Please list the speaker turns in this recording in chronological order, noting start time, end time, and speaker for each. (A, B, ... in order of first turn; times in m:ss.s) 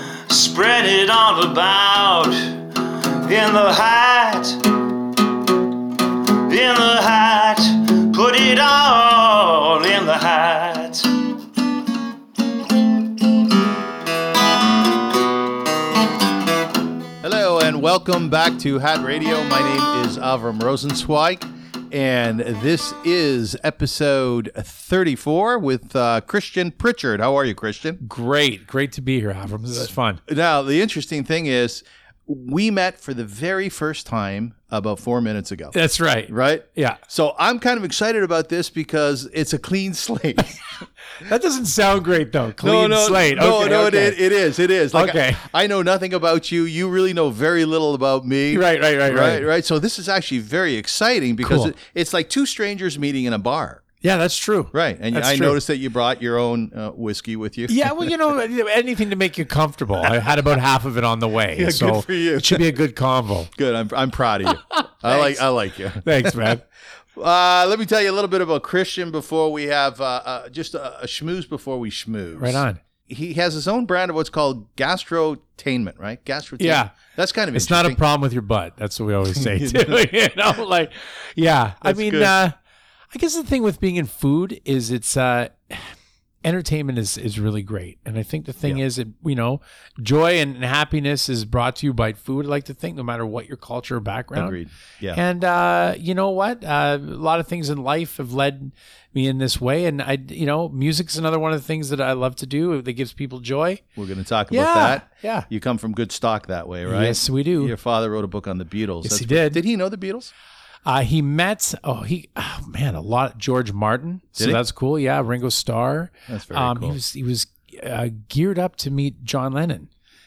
0:00.3-0:04.9 A
0:06.4-0:11.2 A
0:17.2-0:28.0 B
0:28.0-0:30.2 C
0:30.3-0:35.8 B
0:35.7-0:37.0 C
0:36.3-0:40.6 B
0:41.2-0:44.2 C
0:42.6-0:53.8 B
0:44.9-0:45.4 C
0:48.5-0:49.5 C
0:51.4-0:51.7 C
0:54.0-0:55.6 C
0:54.7-0:58.1 B
0:57.7-1:03.5 C
1:01.6-1:02.8 B
1:03.6-1:06.6 B
1:04.7-1:05.4 C
1:06.0-1:06.6 C
1:07.2-1:18.0 B
1:12.4-1:12.8 C
1:16.6-1:17.0 C
1:17.5-1:22.6 C
1:19.3-1:20.0 B
1:21.8-1:22.3 B
1:23.1-1:34.6 C
1:34.3-1:35.2 B
1:35.1-1:43.8 C
1:44.0-1:50.3 B
1:44.5-1:45.5 C
1:46.9-1:47.7 C
1:49.0-1:49.6 C
1:50.9-1:59.9 C
1:56.3-1:57.0 B